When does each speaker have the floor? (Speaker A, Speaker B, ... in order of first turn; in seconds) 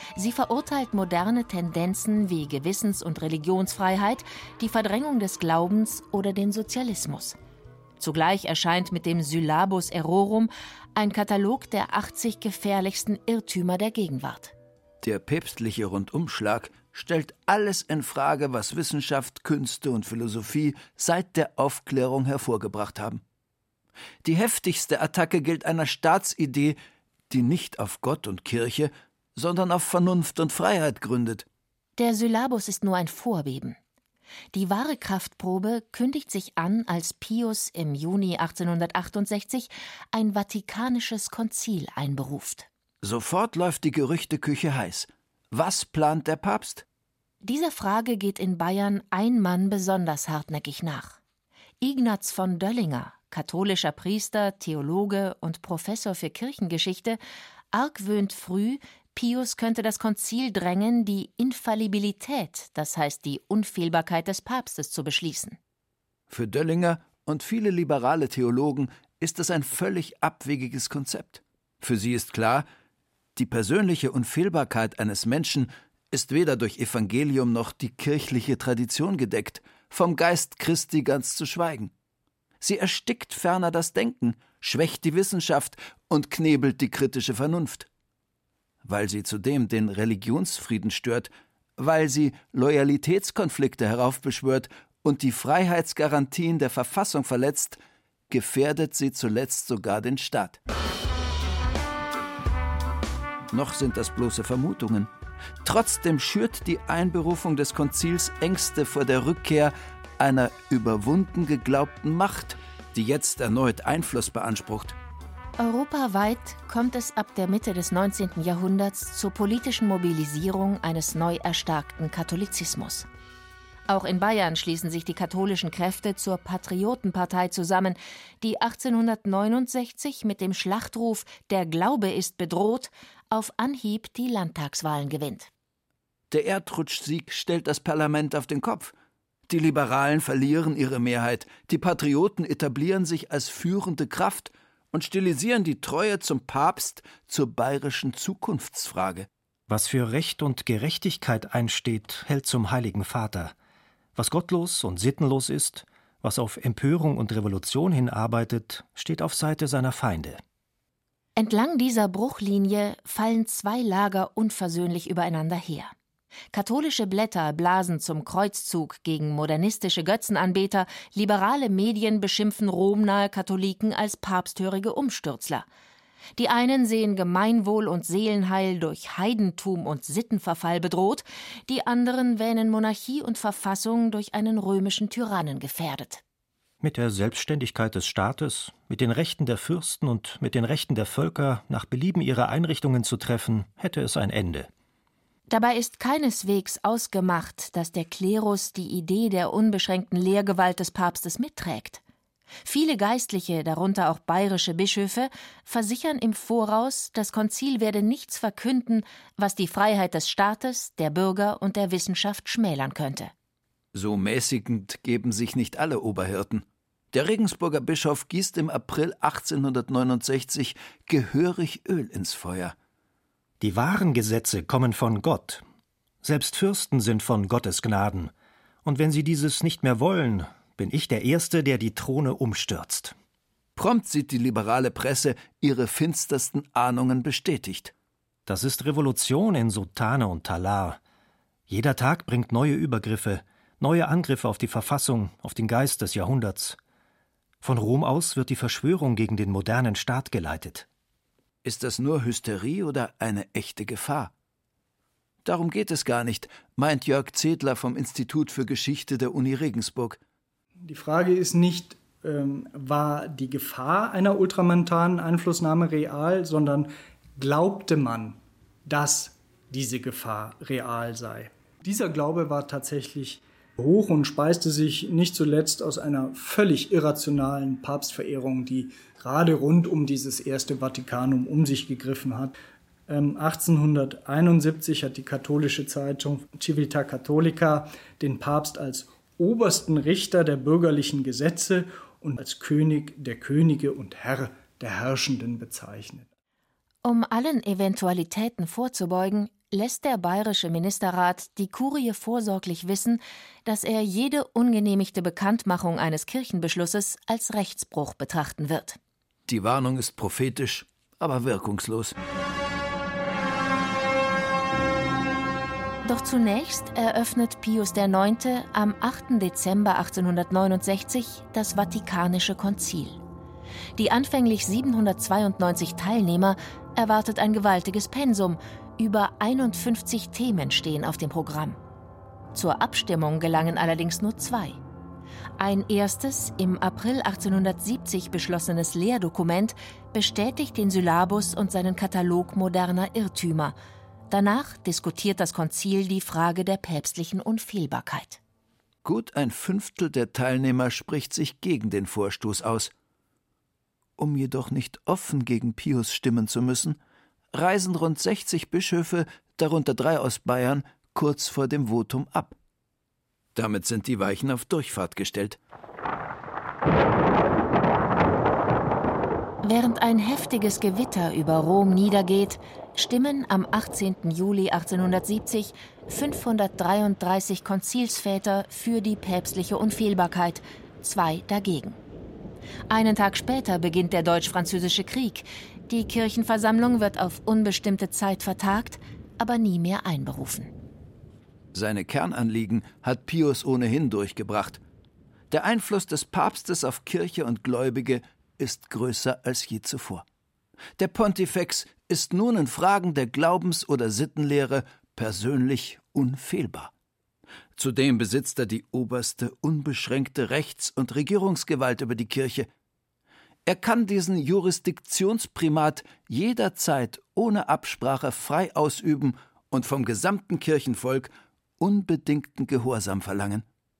Speaker A: 0.2-7.4, 8.0-14.5, 32.0-33.8, 34.5-42.7, 47.4-51.2, 51.8-57.2, 57.7-65.6, 115.6-123.1, 123.9-135.5, 161.4-165.9, 166.5-175.7, 176.4-186.2, 195.5-202.0, 202.6-213.3, 297.1-309.0, 316.1-323.2, 324.0-331.8, 332.5-334.8, 335.6-343.8, 344.3-348.4, 369.6-382.0, 382.9-390.7
Speaker B: 15.0-23.2, 24.2-26.8, 27.3-31.5, 43.0-46.9, 66.3-72.7, 73.4-81.9, 82.6-87.9, 88.8-97.8, 98.3-100.6, 103.5-105.1, 105.6-115.0, 136.3-138.9, 139.5-149.3, 213.9-222.8, 233.8-237.9, 251.6-254.3, 255.4-260.2, 309.5-312.2, 349.1-352.9, 354.2-357.0, 357.5-362.6, 363.6-365.6, 391.7-394.8, 395.5-400.2, 401.0-406.9, 407.8-412.7, 413.7-423.6
Speaker C: 149.7-153.5, 154.2-160.4, 186.8-194.7, 223.6-225.6, 226.2-228.3, 228.8-233.2, 238.5-241.0, 241.7-246.8, 247.6-250.9
Speaker D: 260.8-282.5, 283.1-296.3